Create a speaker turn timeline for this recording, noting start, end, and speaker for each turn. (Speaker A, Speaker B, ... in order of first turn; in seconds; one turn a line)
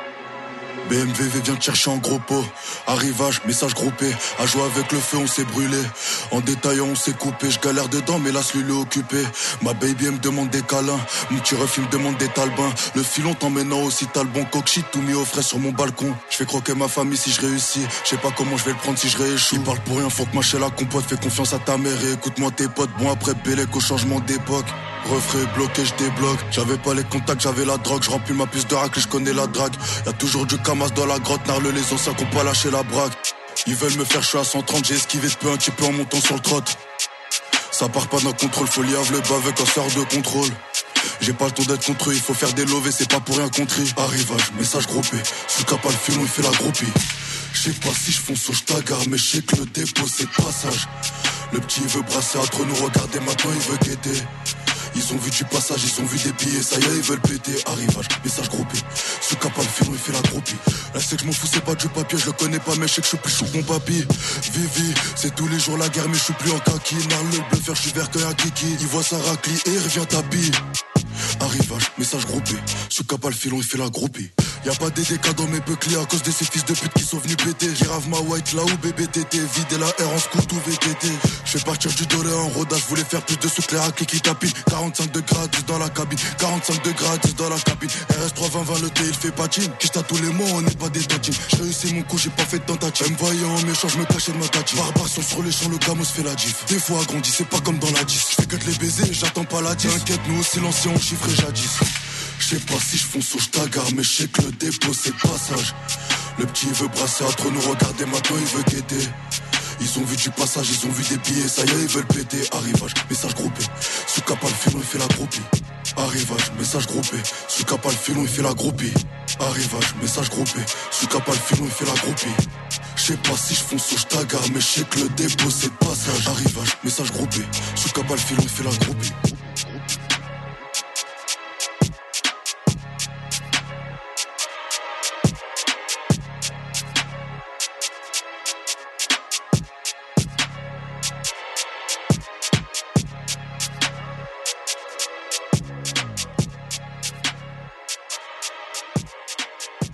Speaker A: 0.8-36.8
Speaker A: 37.7-40.6
Speaker A: 41.2-50.9
Speaker A: 51.5-54.3
Speaker A: 54.9-70.6
Speaker A: 71.4-105.8
Speaker A: 106.4-109.2
Speaker A: 109.8-122.5
Speaker A: 123.0-129.2